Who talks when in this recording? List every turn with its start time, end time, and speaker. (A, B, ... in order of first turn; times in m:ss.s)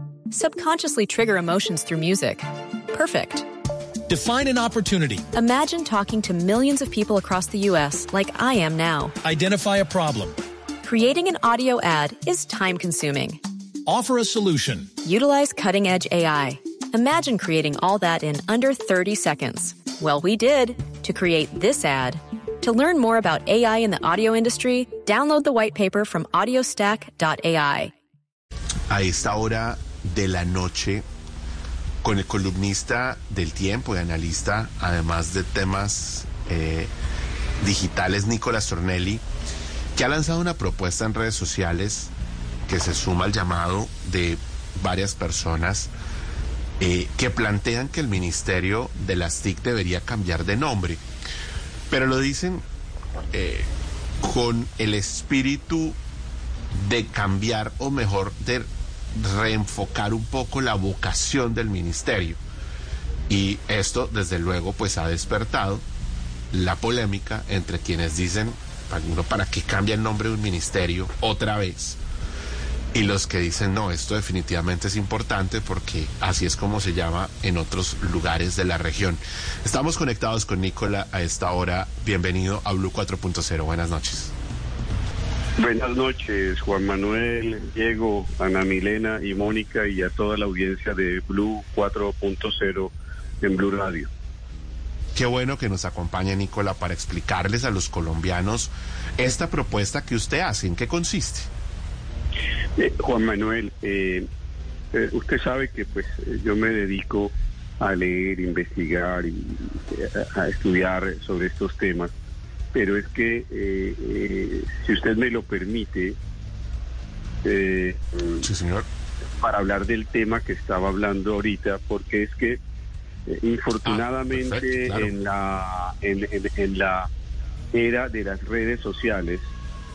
0:00.3-0:03.5 A
0:04.1-0:05.2 B
0:05.3-0:09.2 A
0:09.2-0:10.4 B
0:10.8-0:13.4 A
0:13.9-0:14.9 B
0:15.0-0:27.9 A
0:28.9-0:31.0 C
0:32.0-0:36.9 C
0:37.6-0:39.2 C
0:40.0-0:42.1 C
0:42.7-0:45.9 C
0:46.8-0:51.0 C
0:51.9-0:52.6 C
0:53.3-0:53.7 C
0:54.2-0:56.0 C
0:56.8-1:02.4 C
1:03.3-1:05.8 C
1:06.5-1:12.0 C
1:12.9-1:24.3 C
1:25.6-1:34.1 D
1:35.2-1:41.5 C
1:42.8-1:44.3 D
1:44.9-1:52.1 D
1:52.7-1:56.2 D
1:57.4-1:58.4 D
1:58.4-1:58.8 C
1:59.4-2:02.6 D
2:03.3-2:07.1 D
2:03.9-2:05.1 C
2:07.7-2:09.5 D